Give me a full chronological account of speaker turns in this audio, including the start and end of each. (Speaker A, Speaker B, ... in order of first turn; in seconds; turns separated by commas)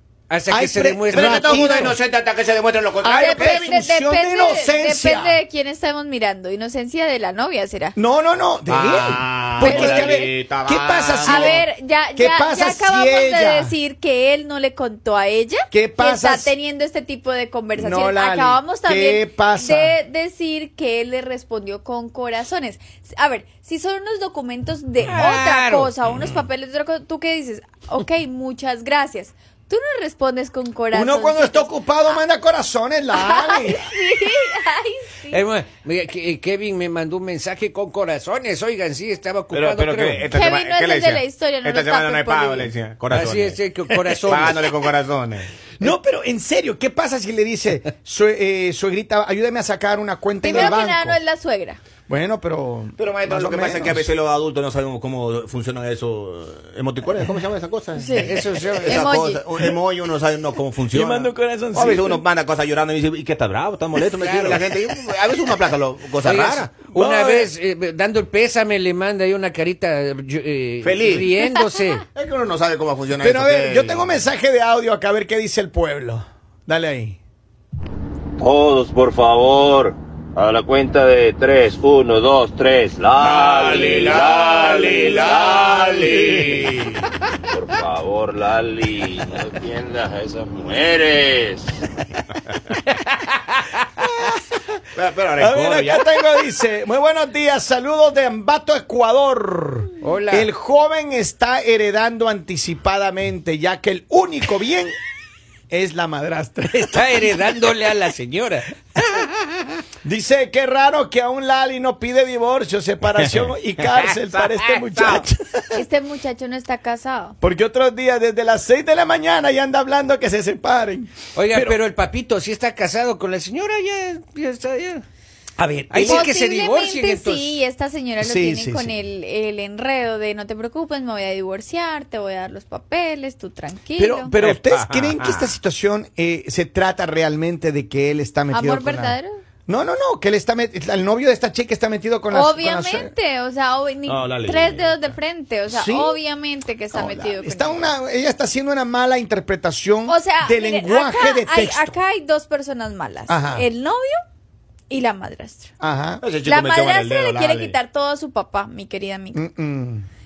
Speaker A: 0.3-1.9, Speaker B: 0.5-2.0, Speaker C: 1.1-3.7, Speaker B: 3.0-5.4, Speaker D: 3.1-8.0, Speaker B: 8.0-13.7, Speaker C: 8.7-11.6, Speaker D: 9.6-10.3, Speaker D: 11.2-32.1, Speaker B: 15.7-16.5, Speaker B: 17.8-20.0, Speaker A: 25.0-25.9, Speaker B: 30.9-33.9, Speaker D: 33.1-35.4, Speaker A: 35.3-40.3, Speaker C: 39.5-43.6, Speaker D: 40.3-42.7, Speaker A: 43.1-44.7, Speaker B: 44.1-44.6, Speaker C: 44.2-45.5, Speaker B: 45.8-51.2, Speaker D: 50.4-51.8, Speaker B: 52.1-54.1, Speaker C: 53.0-66.7, Speaker D: 57.9-59.4, Speaker A: 58.2-59.1, Speaker B: 60.9-62.2, Speaker A: 64.0-64.7, Speaker A: 66.2-72.0, Speaker B: 66.9-67.5, Speaker C: 70.8-71.3, Speaker C: 72.1-74.2, Speaker B: 73.2-77.2, Speaker E: 78.4-86.6, Speaker C: 83.2-87.0, Speaker B: 86.0-86.6, Speaker E: 87.5-91.8, Speaker A: 92.9-93.6, Speaker B: 94.0-94.6, Speaker C: 94.9-96.1, Speaker B: 95.4-104.9, Speaker A: 100.0-100.5, Speaker B: 105.7-107.4, Speaker A: 106.7-109.4, Speaker B: 110.0-115.8, Speaker C: 114.5-115.2, Speaker D: 115.7-117.3, Speaker B: 117.4-121.8, Speaker A: 121.3-125.0, Speaker A: 125.6-127.6, Speaker B: 125.9-126.3, Speaker D: 126.0-134.3, Speaker B: 128.2-128.9, Speaker B: 134.0-143.1, Speaker C: 134.4-135.5, Speaker D: 138.5-139.4, Speaker D: 142.3-147.9, Speaker C: 144.1-145.0, Speaker B: 145.7-146.2, Speaker B: 146.9-152.0, Speaker D: 150.1-154.2, Speaker B: 153.3-153.7, Speaker D: 154.9-155.7, Speaker B: 155.8-156.2, Speaker C: 156.2-157.8, Speaker D: 156.4-159.4, Speaker B: 159.3-160.1